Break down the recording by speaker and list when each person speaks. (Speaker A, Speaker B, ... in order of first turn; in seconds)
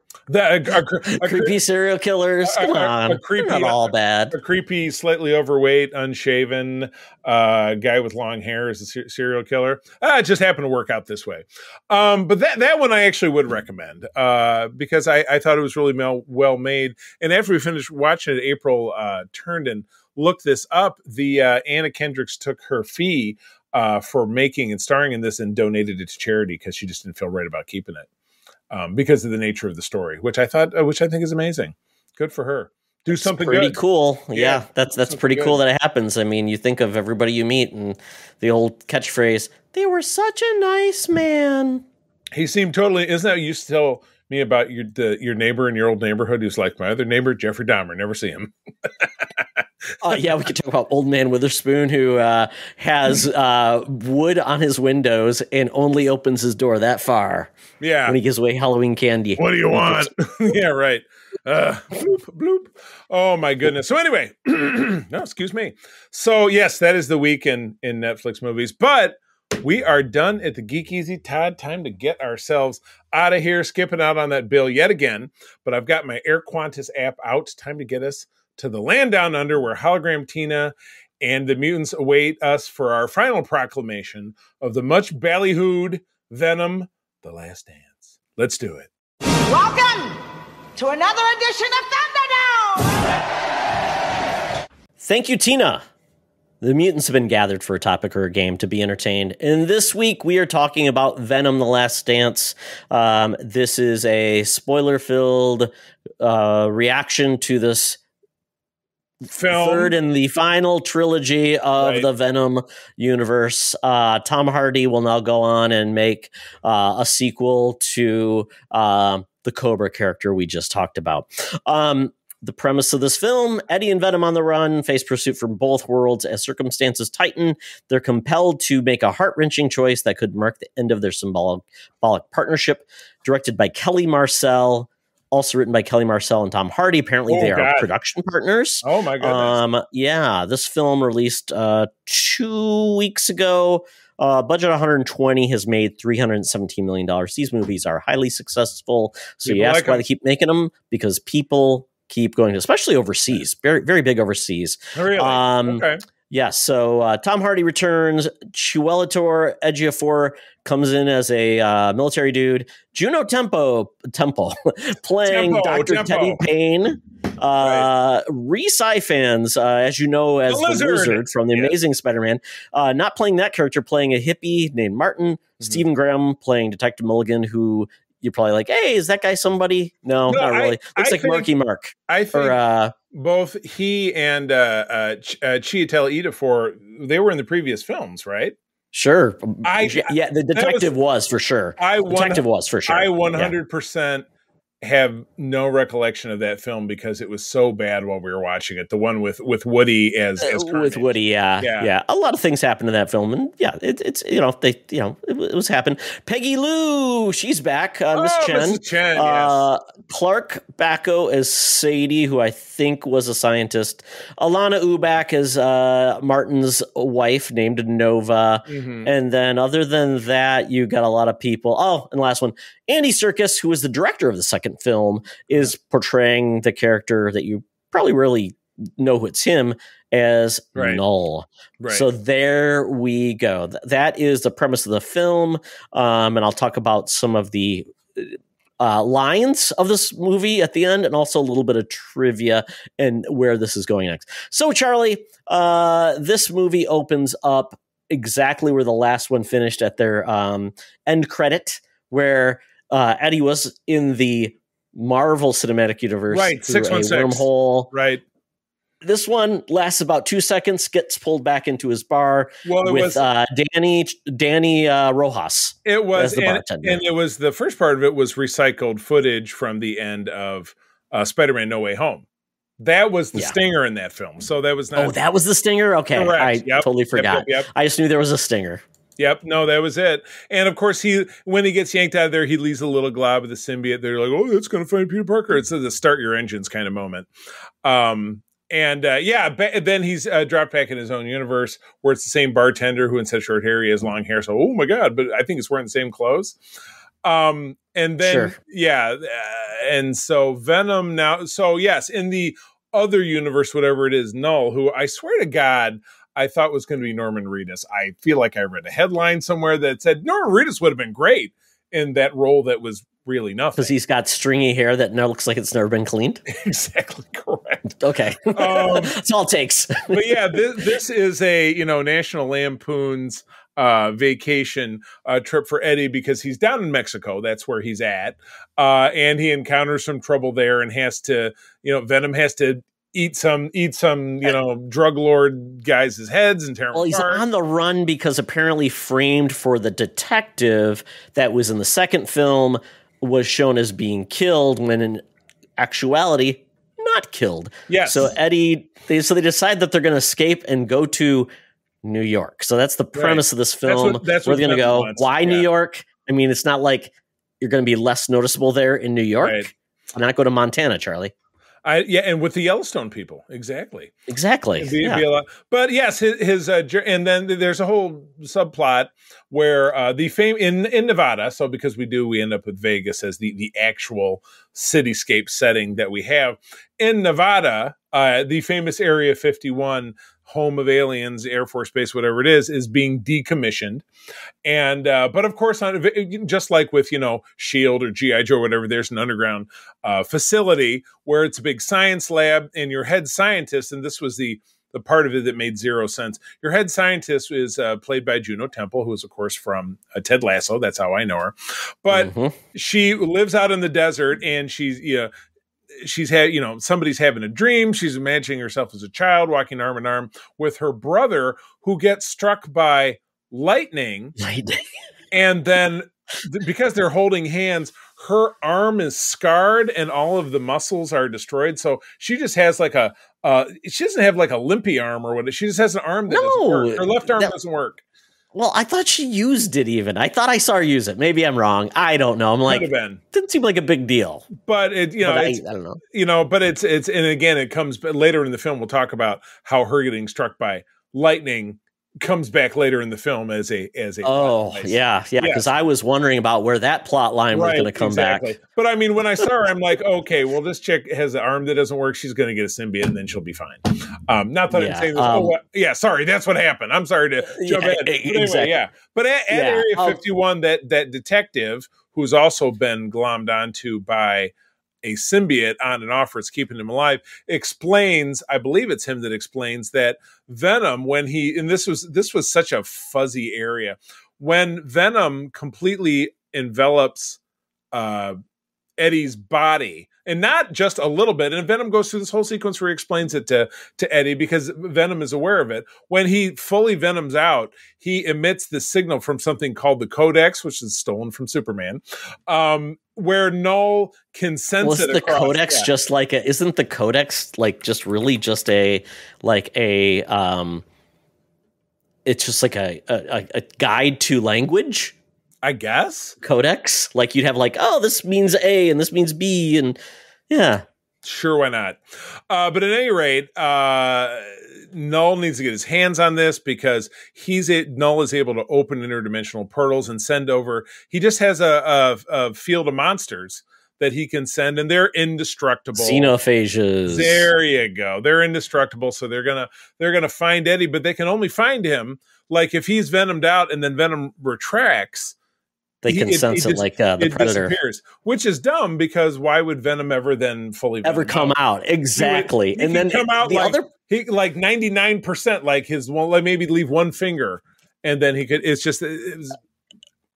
Speaker A: 0.3-1.6, 2.4-28.1, 28.7-33.8, 34.3-35.6, 42.3-49.6, 57.8-58.2, 59.4-88.9, 109.3-110.0, 111.8-112.1, 137.3-137.9, 138.8-139.6, 149.4-150.0, 154.9-156.0, 165.2-166.4, 167.6-167.9, 170.5-171.8, 175.6-175.8, 180.3-181.5, 182.1-182.6, 183.1-188.6, 189.6-190.9, 191.8-194.2, 194.8-201.9, 208.1-209.6, 218.7-219.1, 230.7-231.0, 231.8-232.1, 256.3-258.2, 262.6-263.2, 265.8-272.2, 272.8-275.1, 276.1-277.7, 279.2-287.3, 287.8-296.6, 297.2-313.9, 316.5-317.8, 318.5-319.1, 320.1-337.4, 347.9-348.3, 353.1-355.7, 359.4-359.7, 361.8-364.1, 364.8-384.0, 384.6-405.3, 405.9-414.3, 415.3-428.0, 432.7-433.2, 434.6-445.7, 447.5-477.4, 477.9-478.4, 479.0-495.9, 505.6-506.4, 511.2-526.3, 527.1-535.4, 536.0-541.6, 542.1-549.6
Speaker B: 1.1-4.3, 33.1-41.8, 50.0-57.5, 58.0-60.1, 95.0-95.8, 96.6-108.0, 109.5-182.9, 188.9-193.5, 200.4-257.9, 259.0-267.0, 274.9-278.8, 298.2-298.6, 313.8-316.4, 317.9-320.6, 336.9-345.2, 345.8-351.5, 352.0-361.3, 364.3-365.2, 402.1-402.6, 414.4-414.8, 426.3-427.5, 428.5-434.5, 435.2-436.0, 444.2-448.5, 454.7-455.6, 457.4-458.7, 459.5-460.2, 494.8-500.8, 502.2-505.1, 506.4-510.0, 510.5-510.8, 525.9-527.5, 536.0-537.7, 541.0-543.9
Speaker C: 89.4-90.2, 90.8-93.1